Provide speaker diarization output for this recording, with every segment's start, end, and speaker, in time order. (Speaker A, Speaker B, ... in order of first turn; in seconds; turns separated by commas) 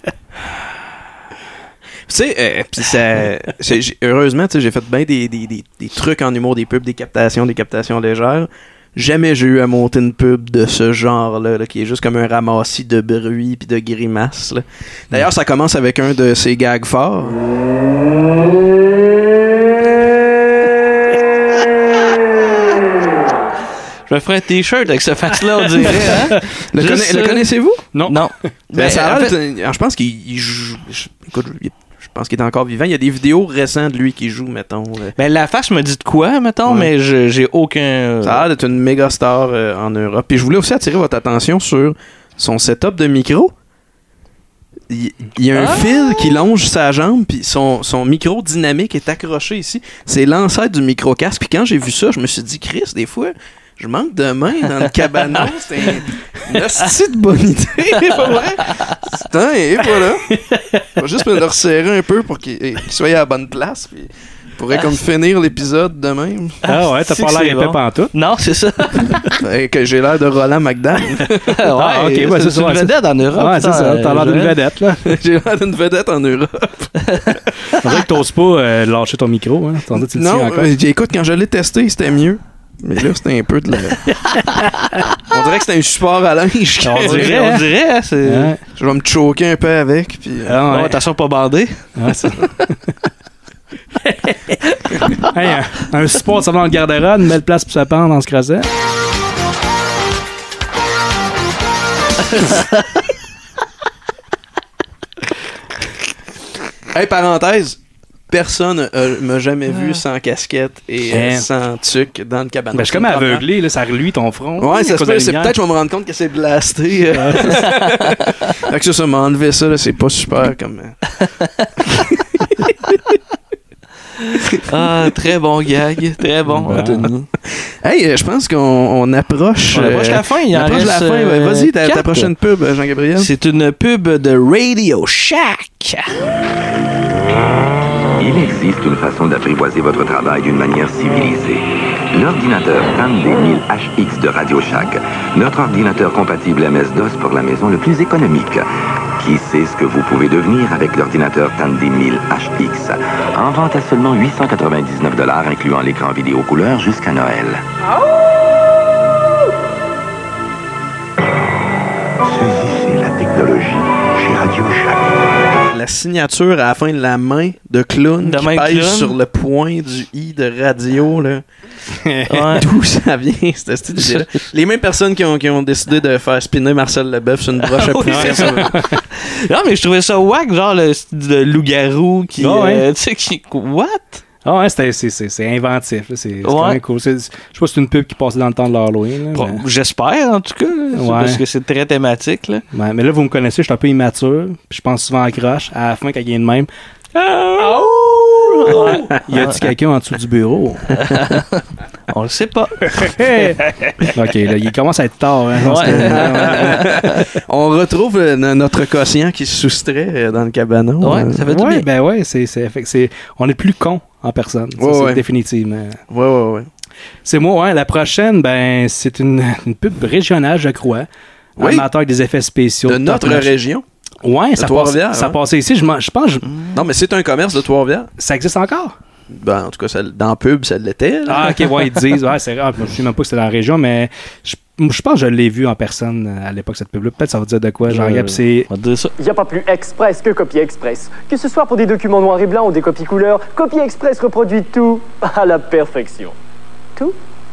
Speaker A: 2.1-17.4, Speaker B: 24.1-27.5, Speaker A: 26.7-27.8, Speaker B: 28.1-29.3, Speaker A: 28.7-35.1, Speaker B: 35.2-38.4, Speaker A: 36.6-36.9, Speaker A: 38.2-43.5, Speaker A: 44.9-60.2, Speaker B: 45.6-46.2, Speaker A: 61.0-66.6, Speaker B: 66.7-69.3, Speaker C: 66.7-68.1, Speaker A: 69.4-71.3, Speaker B: 71.6-74.5, Speaker C: 71.8-75.0, Speaker A: 75.0-76.9, Speaker C: 77.8-80.7, Speaker A: 80.0-84.0, Speaker A: 85.3-87.4, Speaker C: 86.8-87.6, Speaker B: 87.0-88.5, Speaker C: 88.2-88.6, Speaker A: 88.8-90.6, Speaker C: 90.5-90.9, Speaker B: 90.7-91.9, Speaker C: 92.0-92.7, Speaker C: 94.0-94.6, Speaker C: 95.1-98.6, Speaker A: 106.9-107.8, Speaker A: 108.3-113.4, Speaker C: 111.1-111.5, Speaker C: 112.7-115.5, Speaker A: 114.6-121.0, Speaker B: 124.3-127.3, Speaker C: 126.5-127.1, Speaker A: 127.8-133.3, Speaker B: 129.7-132.3, Speaker B: 133.2-136.1, Speaker D: 138.2-148.7, Speaker D: 149.2-157.6, Speaker D: 162.7-164.8, Speaker A: 165.7-171.4, Speaker B: 168.2-169.2, Speaker C: 172.1-172.4, Speaker B: 172.3-172.6, Speaker A: 172.6-178.7, Speaker B: 177.6-178.6, Speaker C: 178.1-178.7, Speaker B: 179.2-184.2, Speaker C: 182.4-182.8, Speaker C: 184.4-189.6, Speaker B: 186.4-186.8, Speaker B: 189.3-192.6, Speaker C: 191.0-191.4, Speaker C: 192.7-196.7, Speaker B: 197.2-199.7, Speaker C: 198.7-200.8, Speaker B: 201.0-203.2, Speaker C: 203.0-203.6, Speaker C: 204.1-206.9, Speaker B: 205.7-207.1, Speaker A: 205.8-211.5, Speaker B: 211.0-211.8, Speaker C: 211.5-216.0, Speaker A: 214.8-215.2, Speaker A: 216.1-216.7, Speaker C: 217.2-221.1, Speaker A: 221.6-221.9, Speaker C: 221.6-223.5, Speaker A: 222.9-223.8, Speaker C: 224.2-226.5, Speaker A: 224.6-225.4, Speaker B: 226.5-226.8, Speaker A: 226.7-228.1, Speaker C: 228.2-228.9, Speaker A: 229.3-231.6, Speaker C: 231.3-238.7, Speaker B: 237.9-239.1, Speaker E: 239.2-246.3